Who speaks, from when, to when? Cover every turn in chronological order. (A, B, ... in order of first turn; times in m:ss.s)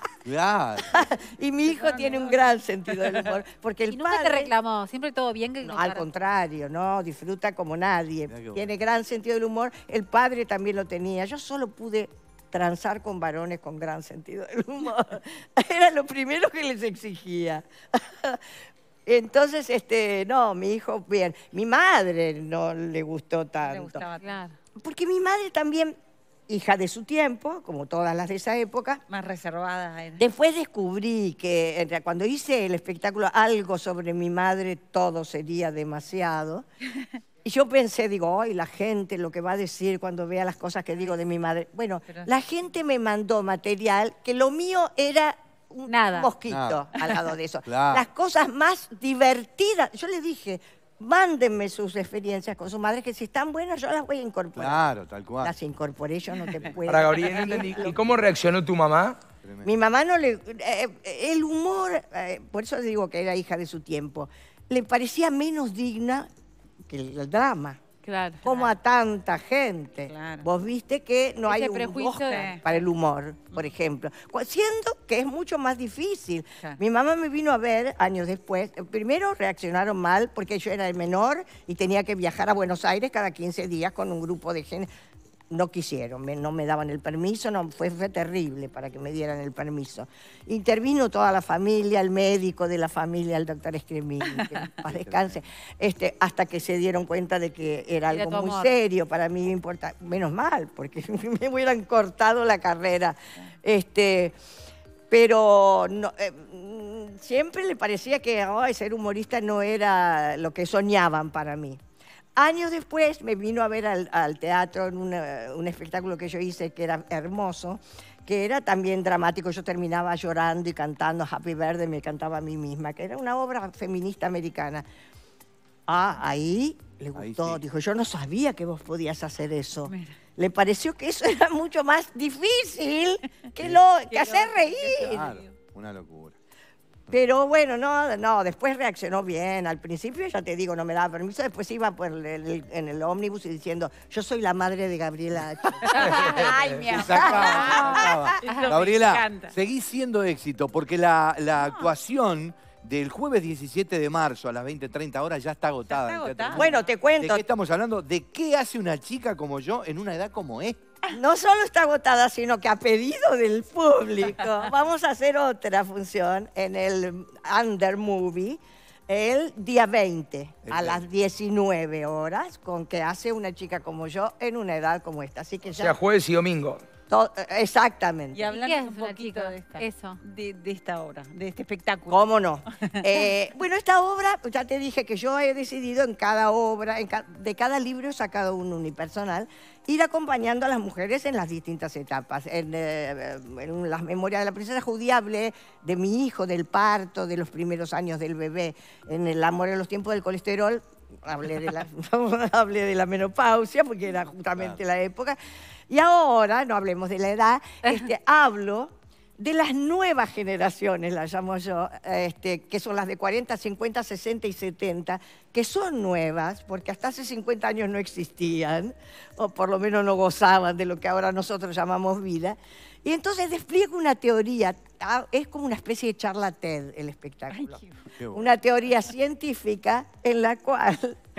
0:00.2-0:01.1 A
0:00.8-0:04.5 B
0:01.7-0:03.2 C
0:03.9-0:06.1 D
0:05.6-0:18.4 B
0:08.3-0:08.7 A
0:19.1-0:24.0 B
0:23.6-0:24.5 C
0:24.2-0:24.5 D
0:24.8-0:26.0 B
0:26.5-0:29.0 B
0:29.1-0:30.2 C
0:30.2-0:36.6 B
0:37.4-0:54.8 B
0:45.9-0:46.3 D
0:46.5-0:46.9 A
0:47.7-0:48.1 A
0:54.6-0:55.6 A
0:55.4-0:58.1 B
0:56.9-0:59.2 E
0:59.4-0:59.7 A
0:59.6-1:06.3 B
1:06.9-1:07.8 B
1:08.0-1:08.4 D
1:08.4-1:08.8 C
1:08.4-1:24.9 B
1:10.1-1:10.5 C
1:11.5-1:12.5 D
1:12.1-1:12.8 C
1:25.5-1:44.3 B
1:34.8-1:35.4 A
1:38.1-1:38.8 D
1:45.1-1:51.8 B
1:52.4-2:04.8 B
2:05.9-2:15.4 B
2:07.2-2:07.6 A
2:09.9-2:10.1 C
2:14.1-2:15.6 C
2:15.0-2:16.4 A
2:17.1-2:28.3 B
2:25.8-2:29.5 C
2:26.1-2:26.4 E
2:26.9-2:40.8 A
2:28.5-2:28.7 D
2:31.6-2:31.9 C
2:35.9-2:36.9 C
2:36.5-2:37.4 B
2:41.1-2:56.0 B
2:50.7-2:51.0 A
2:55.7-2:56.8 E
2:57.1-2:58.5 B
2:58.3-3:03.3 C
2:58.5-3:00.2 D
3:02.1-3:25.4 B
3:25.9-3:51.2 B
3:47.5-3:48.0 C
3:48.2-3:48.5 A